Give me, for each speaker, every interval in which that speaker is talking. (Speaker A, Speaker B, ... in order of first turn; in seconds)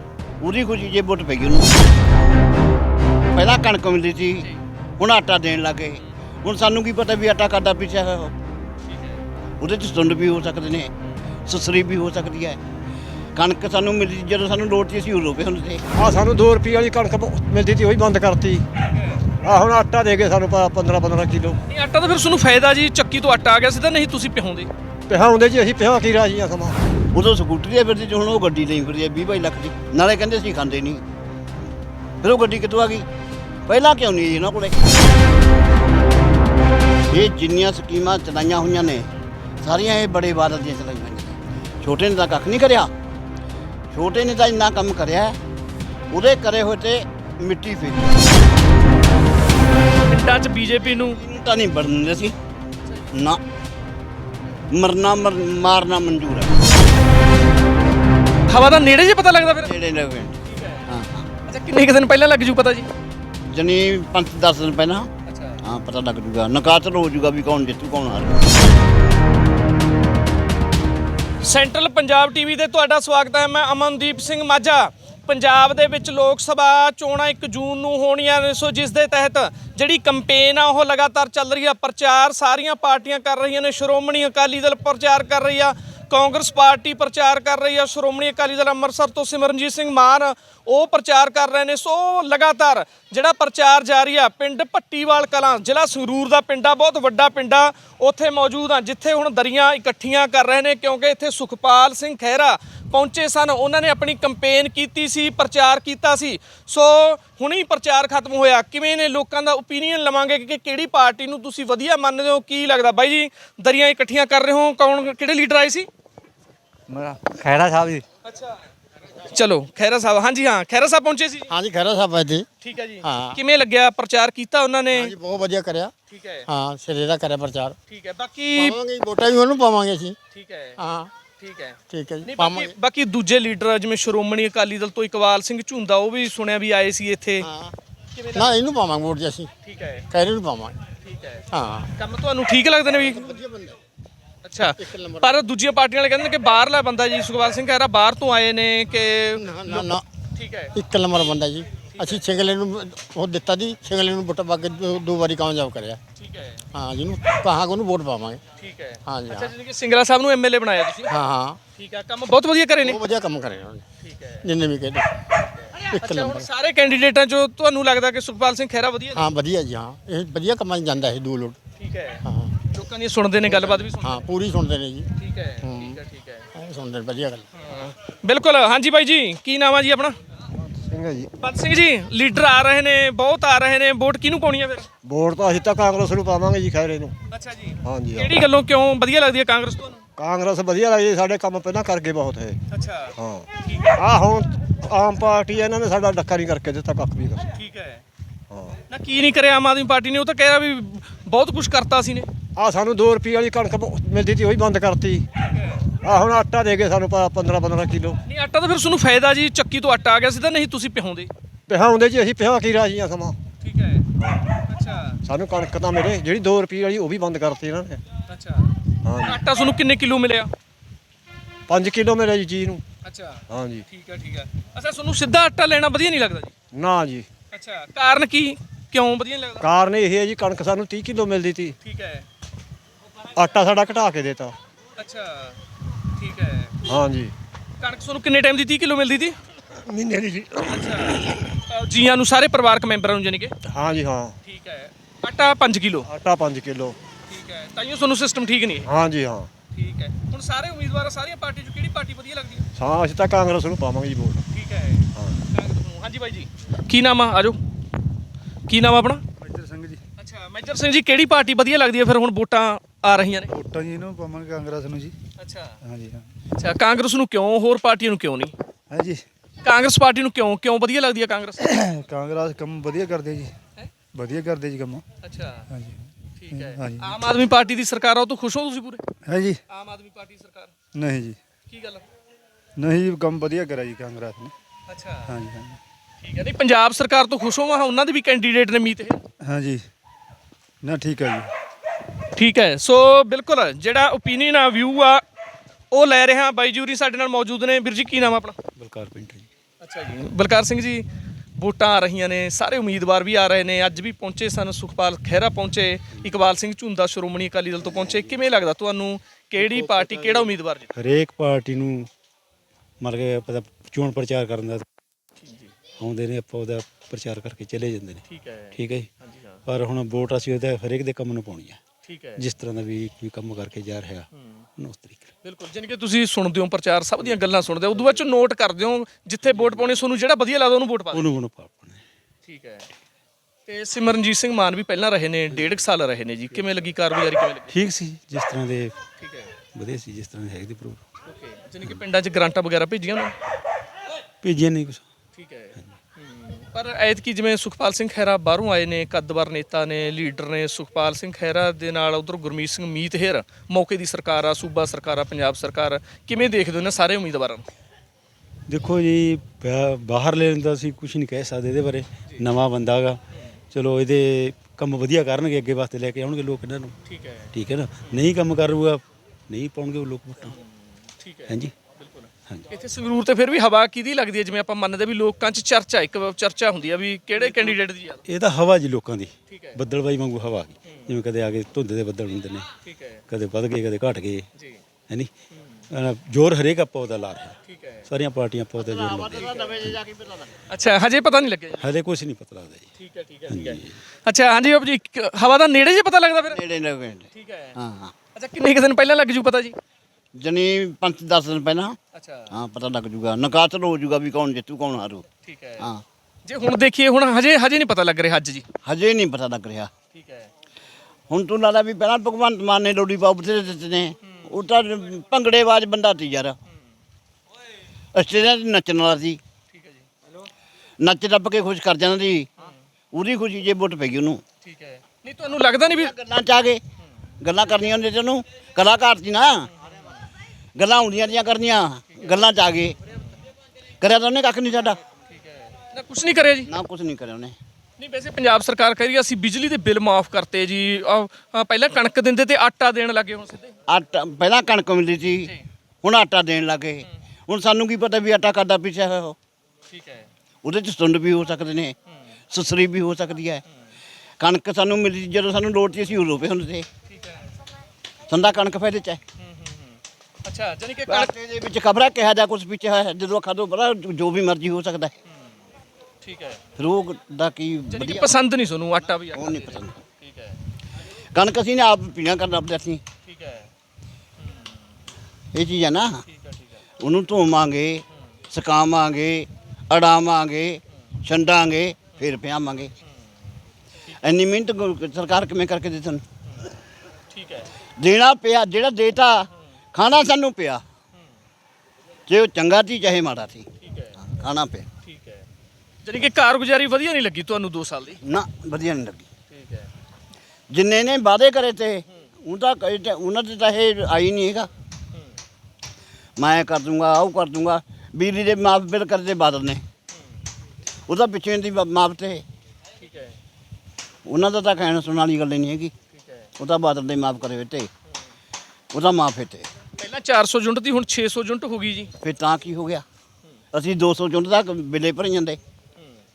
Speaker A: 0.4-1.7, 3.3-4.5, 5.0-8.3, 9.6-10.9, 11.5-12.6, 13.4-15.8, 27.1-31.0, 32.2-33.1, 33.7-34.9, 37.1-39.1, 39.6-42.9, 43.9-45.4, 46.1-48.3, 50.9-52.4, 53.1-53.4, 54.7-56.6, 59.6-61.3, 63.5-65.1, 65.6-68.4, 388.8-390.6, 396.5-398.1, 400.4-402.0, 402.5-405.3, 408.9-409.9, 411.3-416.6, 418.1-419.4, 421.0-422.5, 423.1-424.4, 425.9-426.8, 427.4-429.7, 430.8-433.0, 434.0-435.0, 436.7-437.6, 443.9-445.5, 446.0-449.4, 450.6-451.9, 452.5-453.6, 454.4-456.9, 458.3-459.2, 461.1-465.1, 466.8-468.3, 469.3-469.9, 471.3-473.0, 475.5-476.2, 477.0-482.9, 484.2-486.2, 488.0-490.8, 492.3-493.7, 494.2-494.9, 498.2-499.3, 500.7-504.7, 506.4-509.8, 511.1-512.4, 514.3-515.9, 516.6-517.9, 518.9-519.7, 522.2-523.0, 523.7-525.6
Speaker B: 8.9-9.2, 21.7-24.7, 50.1-51.2, 52.9-53.1, 58.5-59.7, 60.5-60.9, 61.5-62.9, 65.3-65.6, 71.4-115.9, 118.3-118.6, 119.3-121.5, 122.6-125.1, 126.1-126.5, 127.9-128.8, 130.3-130.8, 131.4-137.5, 138.1-138.6, 139.7-140.1, 141.0-141.4, 142.0-143.4, 144.4-150.8, 151.9-152.2, 156.2-156.7, 158.6-161.1, 161.8-163.0, 164.0-164.4, 165.3-169.2, 171.8-174.3, 175.2-176.5, 177.6-180.2, 181.4-184.9, 187.3-190.0, 192.7-194.0, 197.5-198.0, 198.9-202.3, 208.3-211.3, 213.6-214.1, 214.7-215.2, 218.3-220.5, 223.1-226.5, 227.5-229.7, 231.8-232.3, 235.0-235.6, 236.2-236.8, 237.8-239.4, 240.7-243.6, 244.5-246.1, 247.3-248.9, 249.7-252.7, 254.5-257.6, 258.7-259.2, 260.2-263.5, 265.4-265.8, 266.6-268.5, 269.6-271.7, 275.2-275.7, 276.4-279.1, 279.7-280.7, 281.7-282.1, 284.9-285.4, 286.2-289.2, 292.3-295.2, 295.9-298.6, 299.8-301.1, 301.6-310.9, 315.4-315.7, 318.3-319.6, 322.1-322.4, 324.4-324.7, 325.4-331.3, 332.5-332.9, 333.7-337.7, 339.2-339.5, 341.3-343.3, 345.4-357.7, 367.1-367.5, 371.2-378.2, 379.5-379.8, 382.9-383.2, 385.6-385.8, 387.7-388.1, 389.4-389.8, 390.7-391.9, 393.0-396.6, 397.3-397.8, 398.4-399.8, 402.1-402.5, 405.5-405.9, 406.5-408.6, 410.1-410.5, 419.7-420.1, 424.6-426.1, 429.8-430.2, 435.3-436.7, 438.0-443.7, 449.9-450.3, 457.1-457.5, 459.4-461.3, 466.2-466.6, 467.9-470.6, 473.3-473.7, 476.3-476.8, 487.3-487.7, 493.8-494.1, 495.1-495.4, 496.0-498.2, 499.5-499.9, 513.0-513.4, 516.1-516.5, 520.0-522.1
Speaker C: 16.0-18.6, 19.4-21.6, 25.1-26.8, 117.5-118.0, 180.7-181.3, 185.1-187.1, 187.8-188.3, 190.2-192.6, 193.2-193.5, 194.0-197.5, 198.5-198.8, 202.6-205.2, 206.0-208.2, 211.7-213.4, 214.2-214.5, 215.3-218.0, 219.1-219.4, 221.7-222.8, 223.5-223.8, 226.7-227.3, 229.6-231.8, 233.4-234.6, 236.9-237.3, 239.9-240.9, 243.7-244.4, 246.1-247.0, 248.9-249.5, 252.8-254.4
Speaker D: 116.9-117.5, 259.4-260.0, 263.5-265.1, 265.8-266.3, 268.9-269.2, 271.7-273.5, 274.1-275.0, 275.7-277.2, 279.2-279.6, 280.9-281.4, 282.8-284.5, 285.3-285.8, 289.4-289.8, 290.8-291.5
Speaker E: 121.5-122.5, 123.0-123.4, 125.0-125.9, 126.5-127.8, 128.6-130.2, 130.8-131.1, 131.9-132.7, 137.4-137.7, 138.3-139.5, 140.1-140.8, 141.5-141.9, 143.0-143.8, 144.8-145.3, 149.4-150.0, 150.8-156.0, 156.7-158.4, 159.1-159.5, 161.1-161.6, 162.8-163.8, 164.4-165.1, 165.9-166.5, 169.1-171.6, 172.2-172.5, 173.5-175.1, 175.6-176.0, 176.6-177.4
Speaker F: 298.8-299.5, 307.8-308.4, 309.6-310.4, 310.9-312.1, 313.0-314.9, 316.0-318.2, 318.7-319.1, 319.7-321.8, 322.4-325.3, 331.1-332.0, 337.7-338.9, 339.8-341.0, 344.4-345.0, 358.7-363.2, 363.7-366.9, 367.5-370.6, 371.5-371.7, 378.2-382.7, 383.3-384.4, 385.9-387.6, 388.1-389.4, 391.8-392.9, 393.5-394.0